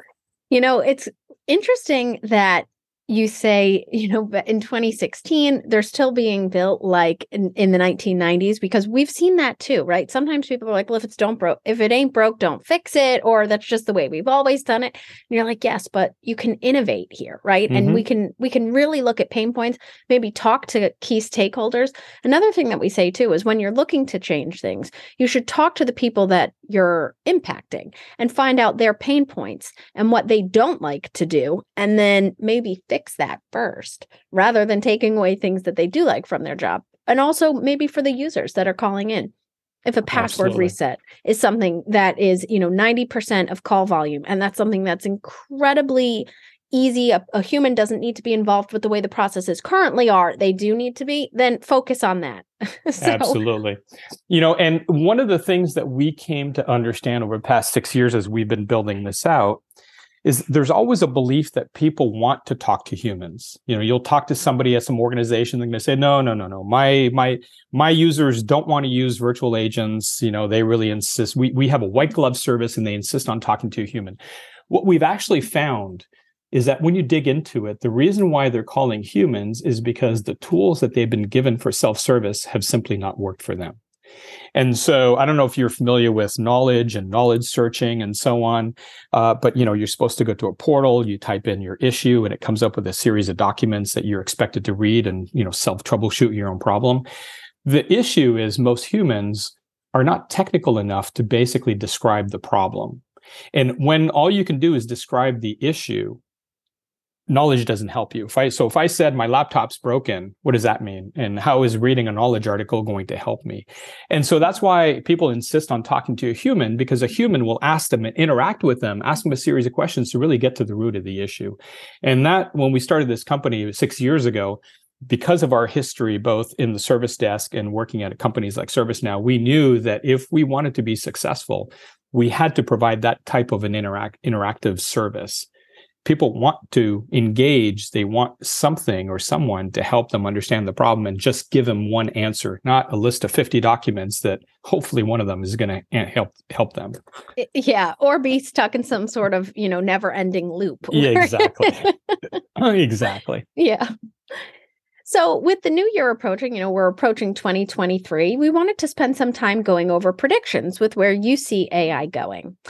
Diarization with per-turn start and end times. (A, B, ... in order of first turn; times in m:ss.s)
0:00.5-0:39.3 A
0:17.7-0:18.0 B
0:39.9-0:53.4 A
0:40.1-0:40.7 B
0:53.0-0:59.6 B
1:00.2-1:14.2 B
1:14.7-1:23.8 B
1:24.6-1:37.0 B
1:37.6-1:43.0 B
1:43.5-1:46.2 B
1:47.3-2:15.5 B
2:16.0-2:27.0 B
2:27.4-2:31.9 A
2:30.9-2:31.9 B
2:32.6-2:33.4 B
2:33.6-2:33.9 A
2:35.0-2:42.6 A